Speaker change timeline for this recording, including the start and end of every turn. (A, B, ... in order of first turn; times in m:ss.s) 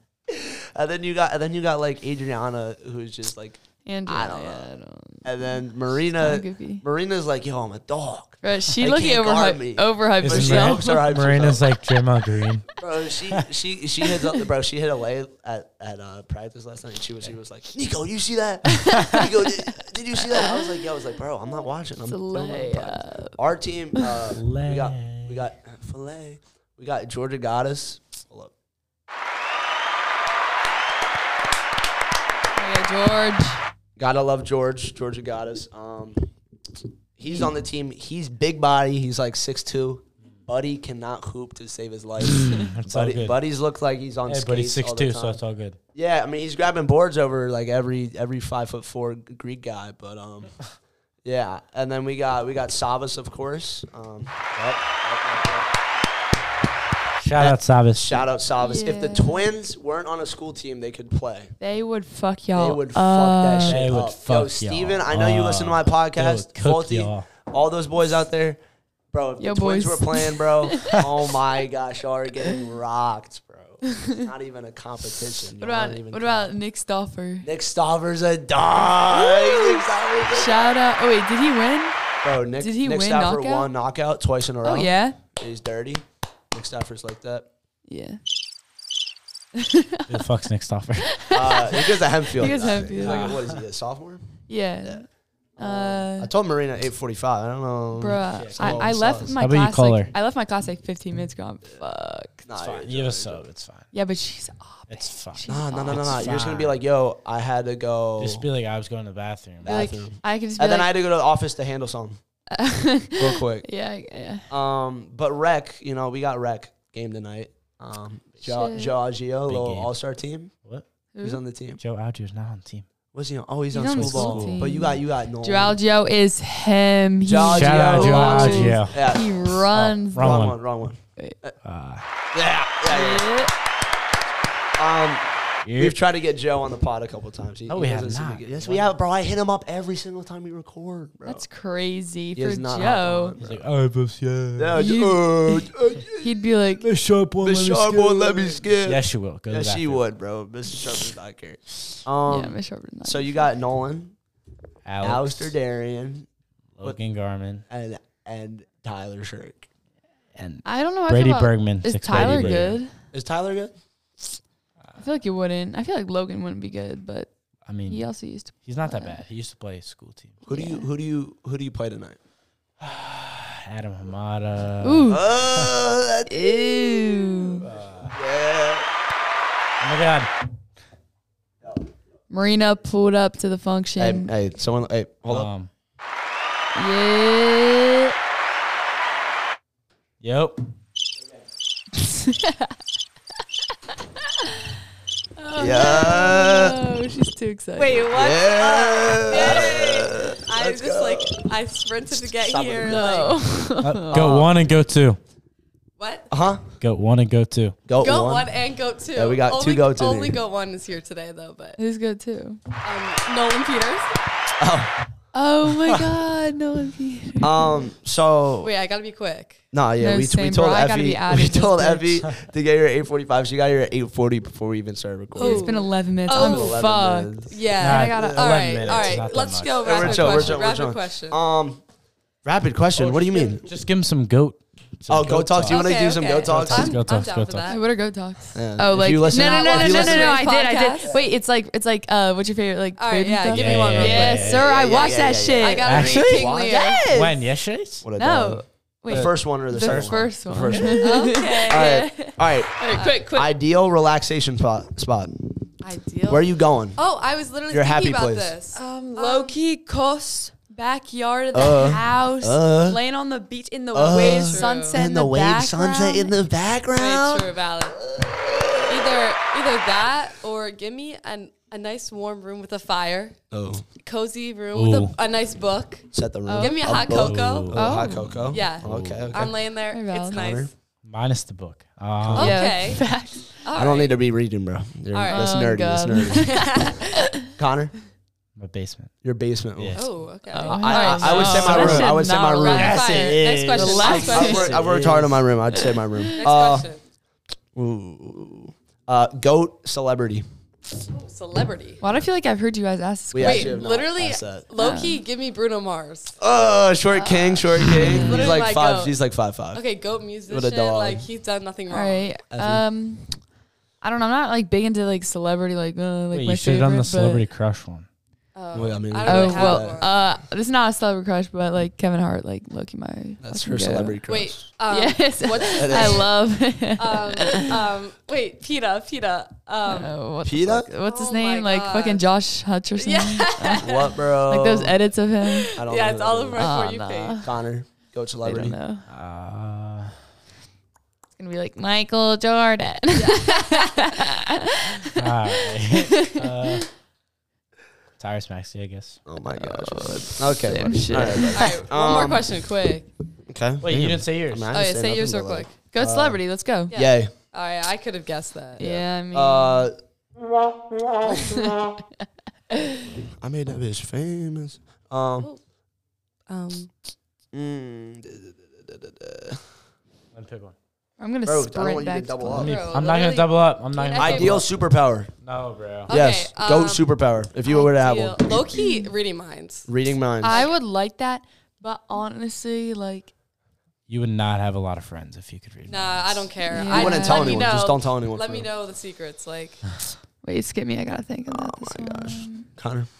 0:00.3-0:04.7 A
0:03.8-0:06.8 B
0:05.2-0:11.7 A
0:08.4-0:11.0 B
0:10.2-0:12.7 C
0:12.8-0:28.5 A
0:18.8-0:19.3 B
0:20.2-0:20.6 B
0:22.0-0:23.4 B
0:24.3-0:25.5 C
0:32.5-0:33.6 B
0:34.0-0:36.3 A
0:37.2-0:45.4 A
0:42.2-0:43.4 C
0:44.2-0:45.8 C
0:45.9-0:50.7 A
0:51.2-0:55.7 A
0:57.2-0:58.3 C
0:57.4-1:01.5 A
0:58.6-0:59.5 B
1:01.6-1:03.9 B
1:02.5-1:08.6 A
1:03.6-1:07.3 C
1:09.1-1:16.5 A
1:09.4-1:11.0 B
1:13.8-1:14.1 B
1:15.6-1:17.5 B
1:17.4-1:20.8 A
1:19.1-1:22.0 B
1:22.2-1:27.5 A
1:22.6-1:23.7 B
1:24.6-1:25.2 B
1:27.9-1:28.2 B
1:29.5-1:30.2 B
1:30.1-1:31.2 C
1:31.0-1:33.4 B
1:31.3-1:34.3 A
1:33.0-1:33.6 C
1:34.5-1:35.0 B
1:35.6-1:39.3 A
1:35.6-1:36.3 B
1:37.9-1:42.5 B
1:38.2-1:40.1 C
1:42.4-1:43.5 A
1:42.6-1:43.9 C
1:43.9-1:46.3 B
1:44.9-1:46.8 C
1:45.5-1:48.5 A
1:48.2-1:50.1 C
1:49.6-1:50.9 B
1:49.6-1:52.2 A
1:52.5-1:54.5 B
1:53.2-1:53.7 A
1:54.5-2:00.5 A
1:58.4-1:58.9 B
1:59.4-1:59.9 C
2:01.1-2:01.4 B
2:01.2-2:01.8 A
2:01.8-2:02.9 C
2:03.1-2:05.8 A
2:03.7-2:10.5 B
2:03.9-2:04.7 C
2:07.2-2:09.5 A
2:07.4-2:09.0 C
2:09.7-2:10.6 C
2:10.1-2:11.5 A
2:11.6-2:12.0 C
2:12.3-2:13.3 A
2:12.9-2:13.5 B
2:14.8-2:21.5 A
2:15.6-2:16.0 C
2:17.7-2:18.9 C
2:21.2-2:23.4 B
2:22.4-2:23.6 A
2:23.4-2:24.8 C
2:24.6-2:26.4 A
2:24.7-2:26.9 B
2:26.8-2:28.1 C
2:27.4-2:34.2 A
2:28.1-2:28.6 B
2:28.7-2:30.1 C
2:32.2-2:33.5 B
2:34.8-2:35.6 C
2:35.0-2:36.3 A
2:36.8-2:37.7 C
2:37.7-2:39.7 A
2:40.3-2:42.8 C
2:40.6-2:42.9 B
2:42.1-2:43.7 A
2:45.0-2:47.3 B
2:47.6-2:50.4 C
2:47.8-2:49.2 B
2:50.4-2:52.2 A
2:50.5-2:50.9 B
2:52.8-2:55.7 C
2:54.8-2:55.3 B
2:55.1-2:58.8 A
2:56.3-2:57.6 B
2:57.6-2:58.2 C
2:59.8-3:00.3 C
3:02.3-3:04.3 B
3:04.0-3:05.5 A
3:05.3-3:05.7 C
3:06.7-3:08.1 B
3:10.2-3:10.7 C
3:12.0-3:12.7 B
3:15.4-3:18.1 B
3:15.6-3:16.8 A
3:17.8-3:23.4 D
3:18.1-3:21.4 A
3:19.3-3:19.8 B
3:22.2-3:23.3 A
3:22.8-3:24.4 B
3:23.8-3:25.2 C
3:24.1-3:24.6 A
3:26.0-3:26.3 D
3:26.3-3:26.6 A
3:26.8-3:27.8 C
3:27.8-3:28.5 A
3:27.9-3:31.8 D
3:29.1-3:30.4 A
3:31.8-3:32.6 B
3:32.8-3:34.2 D
3:34.6-3:34.9 A
3:35.3-3:37.8 B
3:37.4-3:38.7 A
3:38.6-3:39.6 D
3:39.7-3:48.5 A
3:40.0-3:42.2 B
3:45.4-3:49.2 B
3:45.4-3:46.8 D
3:47.5-3:51.4 D
3:47.8-3:50.6 C
3:49.8-3:51.8 A
3:52.4-3:53.7 A
3:53.0-3:57.7 C
3:55.1-3:57.0 A
3:55.7-3:57.8 D
3:57.7-4:07.4 B
3:58.5-4:00.4 A
3:59.2-4:01.1 D
4:03.0-4:07.1 D
4:03.5-4:04.7 C
4:04.4-4:06.8 A
4:05.8-4:06.5 C
4:07.1-4:08.0 C
4:08.0-4:15.7 A
4:08.2-4:13.5 B
4:09.1-4:10.9 C
4:11.0-4:12.1 D
4:12.8-4:13.2 D
4:15.8-4:16.5 B
4:16.2-4:17.0 A
4:17.0-4:19.6 D
4:17.7-4:18.6 A
4:18.7-4:26.4 B
4:21.5-4:23.0 A
4:23.9-4:29.2 A
4:24.2-4:25.0 D
4:26.9-4:28.0 D
4:28.9-4:33.4 D
4:33.5-4:33.9 A
4:33.9-4:37.7 D
4:34.7-4:35.2 C
4:36.1-4:39.5 A
4:36.4-4:37.1 B
4:37.1-4:39.5 C
4:37.7-4:38.3 B
4:38.5-4:40.7 D
4:39.9-4:40.4 B
4:40.3-4:40.7 A
4:41.0-4:42.6 C
4:42.2-4:42.6 A
4:42.3-4:43.0 D
4:42.4-4:43.7 B
4:43.6-4:44.2 D
4:43.7-4:46.8 A
4:45.1-4:45.5 D
4:45.3-4:47.0 B
4:46.3-4:47.1 D
4:47.4-4:48.0 A
4:48.6-4:49.2 C
4:49.2-4:53.0 A
4:49.8-4:50.2 C
4:49.9-4:54.8 D
4:50.5-4:54.8 B
4:51.4-4:52.1 C
4:52.7-4:55.8 C
4:54.1-4:56.9 A
4:55.7-4:56.4 B
4:56.4-4:57.0 D
4:57.8-5:00.4 A
5:01.1-5:02.0 D
5:02.0-5:03.8 B
5:03.3-5:04.7 A
5:03.4-5:06.4 D
5:04.8-5:05.2 B
5:06.4-5:09.8 A
5:07.1-5:09.2 D
5:07.8-5:08.6 B
5:09.7-5:12.3 D
5:10.5-5:11.3 A
5:11.9-5:13.4 B
5:12.5-5:12.9 A
5:14.0-5:17.5 B
5:16.3-5:18.1 C
5:18.5-5:20.1 D
5:18.7-5:20.0 A
5:19.2-5:24.2 B
5:23.4-5:24.7 A
5:24.3-5:26.3 D
5:24.9-5:27.8 B
5:25.7-5:26.3 A
5:27.0-5:30.2 D
5:29.9-5:35.7 B
5:30.4-5:30.9 A
5:31.0-5:32.3 D
5:33.0-5:34.1 D
5:33.8-5:35.1 A
5:35.5-5:37.4 D
5:35.8-5:36.8 A
5:36.6-5:37.6 B
5:37.4-5:38.8 A
5:38.4-5:39.1 B
5:39.1-5:40.2 C
5:41.4-5:46.8 B
5:43.1-5:44.1 D
5:45.2-5:46.9 C
5:48.2-5:49.2 C
5:49.2-5:52.5 A
5:49.4-5:51.8 B
5:51.5-5:53.1 D
5:53.5-5:57.3 A
5:53.8-5:54.7 C
5:54.7-5:55.8 D
5:55.9-5:56.9 B
5:56.9-5:58.8 D
5:58.8-5:59.9 B
5:58.8-6:00.0 A
6:01.2-6:01.6 A
6:01.2-6:01.8 B
6:03.4-6:05.5 A
6:06.5-6:06.9 D
6:07.5-6:09.7 A
6:10.3-6:10.8 C
6:11.2-6:13.0 B
6:11.4-6:12.8 A
6:12.5-6:14.8 C
6:12.5-6:14.6 D
6:14.2-6:15.3 A
6:15.4-6:16.1 C
6:16.1-6:19.9 D
6:16.1-6:18.4 A
6:18.8-6:19.1 B
6:19.9-6:20.6 A
6:20.4-6:23.3 B
6:20.4-6:20.7 D
6:24.1-6:26.5 C
6:25.9-6:29.8 D
6:26.7-6:27.6 B
6:26.9-6:28.7 A
6:30.4-6:32.7 B
6:31.5-6:33.1 A